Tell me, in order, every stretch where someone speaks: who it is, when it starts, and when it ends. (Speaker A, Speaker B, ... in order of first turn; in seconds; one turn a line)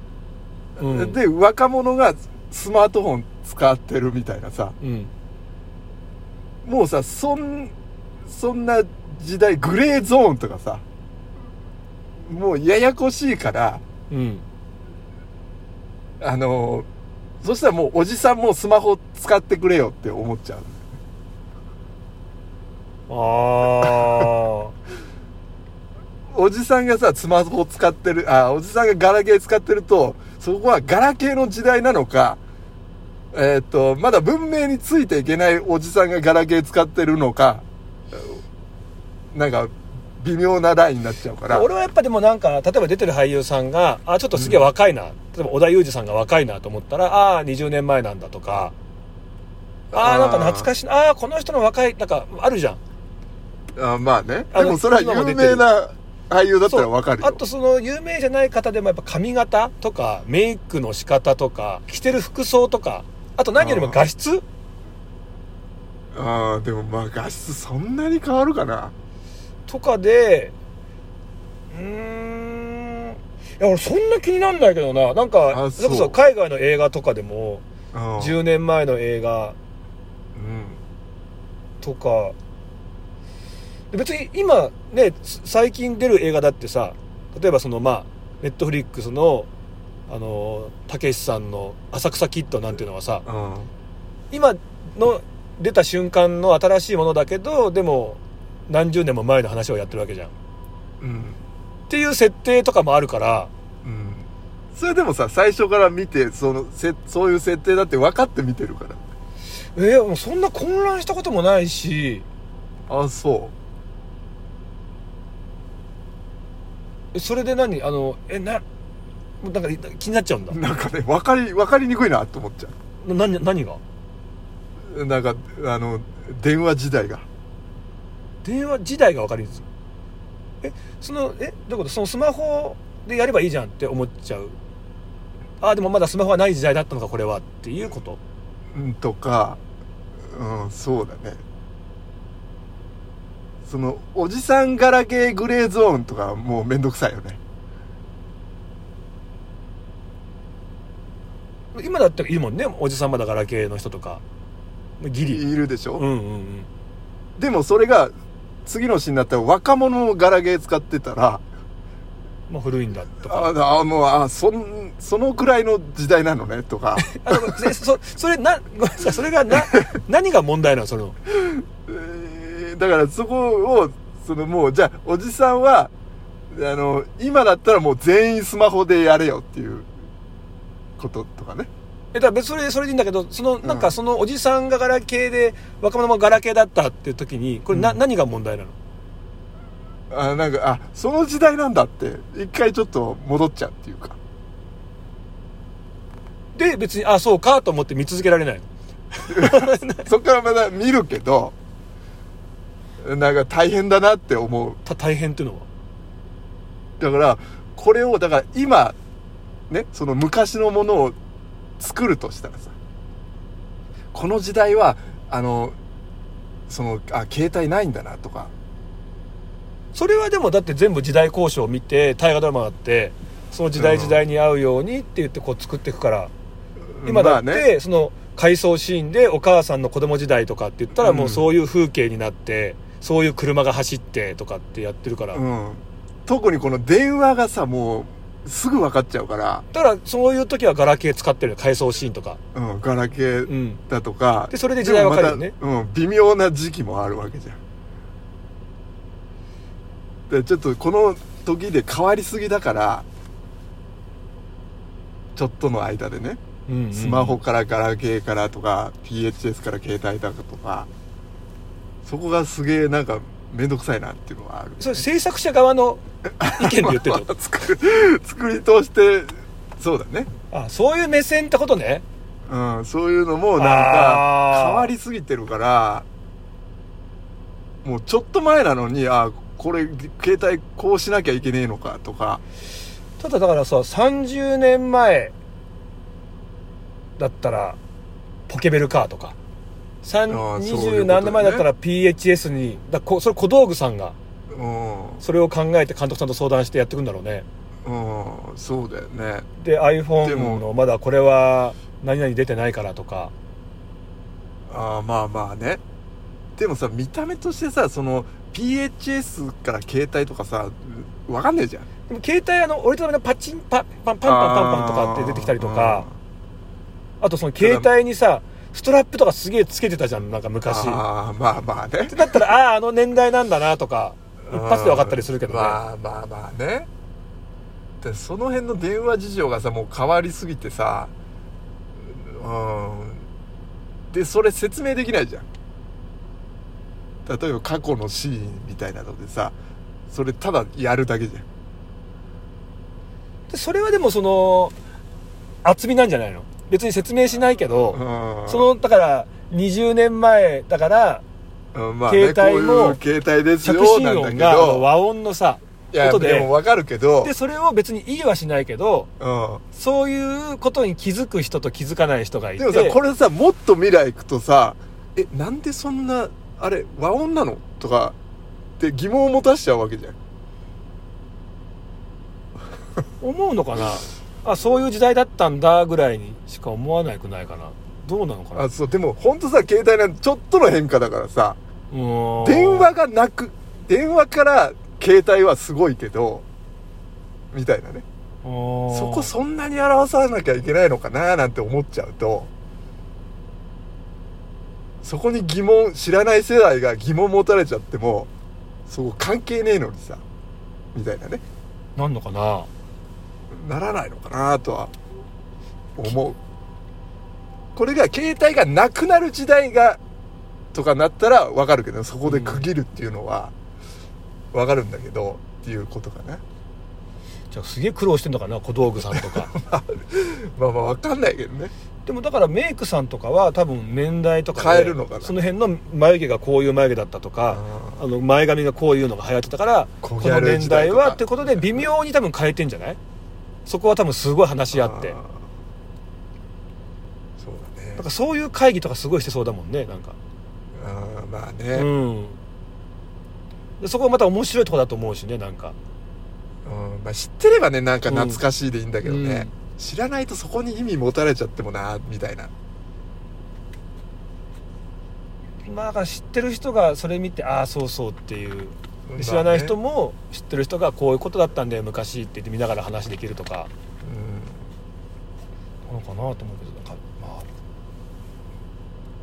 Speaker A: 0.8-1.2
Speaker B: 0.8-4.8
Speaker A: 4.8-5.1
Speaker B: 6.6-7.7
Speaker B: 8.3-10.8
Speaker B: 12.2-13.8
Speaker A: 14.1-14.4
Speaker B: 16.2-16.9
Speaker B: 17.4-20.9
Speaker A: 23.1-24.8
Speaker B: 26.3-32.4
Speaker B: 33.3-38.4
Speaker B: 39.3-41.7
Speaker A: 41.5-48.7
Speaker B: 44.3-44.6
Speaker B: 49.9-50.7
Speaker A: 49.9-52.8
Speaker B: 53.8-57.4
Speaker A: 54.5-55.7
Speaker A: 56.7-64.4
Speaker B: 63.6-64.0
Speaker B: 66.1-68.9
Speaker A: 69.7-70.5
Speaker A: 71.7-77.6
Speaker B: 75.5-76.2
Speaker B: 77.9-78.4
Speaker A: 78.2-79.6
Speaker B: 80.4-80.8
Speaker A: 81.8-82.3
Speaker A: 83.9-89.5
Speaker A: 90.1-93.2
Speaker B: 93.2-93.7
Speaker A: 94.3-100.3
Speaker B: 101.0-101.4
Speaker A: 101.9-103.5
Speaker B: 103.8-109.0
Speaker A: 109.8-112.3
Speaker B: 112.9-113.5
Speaker A: 117.1-118.6
Speaker A: 119.4-120.6
Speaker B: 120.5-122.7
Speaker A: 123.0-123.8
Speaker B: 124.9-127.3
Speaker A: 128.4-129.7
Speaker A: 130.6-134.6
Speaker A: 135.6-138.2
Speaker B: 138.7-139.6
Speaker B: 140.3-141.4
Speaker B: 143.7-147.4
Speaker A: 151.7-154.2
Speaker A: 155.0-155.4
Speaker B: 155.3-156.1
Speaker A: 156.0-156.7
Speaker B: 157.4-158.1
Speaker B: 158.7-161.4
Speaker A: 162.5-163.5
Speaker B: 163.3-167.6
Speaker A: 167.0-171.2
Speaker B: 171.3-175.9
Speaker B: 176.5-179.9
Speaker B: 181.0-181.7
Speaker A: 182.1-188.8
Speaker B: 183.6-183.9
Speaker B: 187.7-188.0
Speaker B: 190.1-194.2
Speaker A: 196.6-200.1
Speaker B: 199.3-201.6
Speaker B: 203.0-204.8
Speaker A: 204.8-205.7
Speaker B: 207.0-209.0
Speaker B: 209.7-211.2
Speaker B: 211.8-212.7
Speaker B: 214.1-215.8
Speaker B: 216.7-218.5
Speaker A: 219.9-226.3
Speaker B: 223.8-224.2
Speaker B: 227.0-227.7
Speaker A: 227.1-235.4
Speaker B: 231.0-231.5
Speaker B: 235.3-239.7
Speaker A: 239.7-242.4
Speaker B: 242.6-247.6
Speaker A: 243.5-243.8
Speaker A: 244.5-245.5
Speaker B: 250.3-253.1
Speaker B: 255.4-256.4
Speaker A: 256.7-257.4
Speaker B: 256.9-260.9
Speaker B: 262.1-265.0
Speaker A: 264.8-267.3
Speaker B: 266.4-270.3
Speaker A: 270.5-272.0
Speaker B: 272.5-276.1
Speaker A: 273.6-274.9
Speaker B: 277.8-282.4
Speaker A: 283.2-285.3
Speaker A: 287.2-287.8
Speaker A: 288.5-289.4
Speaker A: 290.0-294.1
Speaker B: 290.3-291.7
Speaker B: 294.5-295.2
Speaker A: 295.2-297.5
Speaker B: 297.9-299.5
Speaker A: 299.6-303.3
Speaker B: 300.2-300.6
Speaker B: 304.7-305.8
Speaker B: 306.6-311.9
Speaker A: 312.1-316.1
Speaker B: 314.2-316.1
Speaker A: 317.2-321.0
Speaker B: 317.6-317.9
Speaker B: 320.7-322.4
Speaker A: 322.1-325.8
Speaker B: 324.5-326.9
Speaker B: 328.0-331.1
Speaker B: 332.0-333.3
Speaker B: 334.1-335.5
Speaker B: 337.3-339.6
Speaker B: 340.1-341.5
Speaker A: 343.5-344.8
Speaker A: 345.6-351.2
Speaker B: 347.9-348.7
Speaker B: 351.7-354.9
Speaker A: 352.1-353.0
Speaker A: 353.6-356.5
Speaker B: 355.9-357.3
Speaker A: 357.2-359.1
Speaker B: 359.2-359.6
Speaker A: 359.7-363.0
Speaker B: 362.6-368.2
Speaker B: 368.8-370.2
Speaker A: 373.2-378.6
Speaker B: 378.6-381.6
Speaker A: 381.9-382.9
Speaker B: 382.4-386.4
Speaker B: 387.5-388.1
Speaker A: 388.4-389.3
Speaker B: 388.9-392.5
Speaker B: 395.0-398.3
Speaker B: 398.9-400.2
Speaker B: 400.9-401.4
Speaker A: 402.0-402.7
Speaker B: 403.5-404.9
Speaker B: 406.0-406.4
Speaker B: 407.8-410.0
Speaker B: 410.7-413.5
Speaker A: 412.3-412.7
Speaker B: 414.5-416.4
Speaker A: 417.5-419.5
Speaker B: 419.5-421.7
Speaker A: 422.1-433.0
Speaker B: 424.6-425.4
Speaker B: 427.5-428.0
Speaker B: 430.0-431.9
Speaker A: 433.7-435.2
Speaker B: 434.7-435.5
Speaker B: 437.4-438.1
Speaker A: 438.0-440.2
Speaker B: 440.8-441.9
Speaker A: 441.7-442.4
Speaker A: 443.8-445.8
Speaker B: 446.6-452.5
Speaker A: 448.1-448.4
Speaker A: 449.0-449.5
Speaker A: 455.6-463.7
Speaker B: 459.1-459.8
Speaker B: 464.0-464.7
Speaker A: 465.9-467.5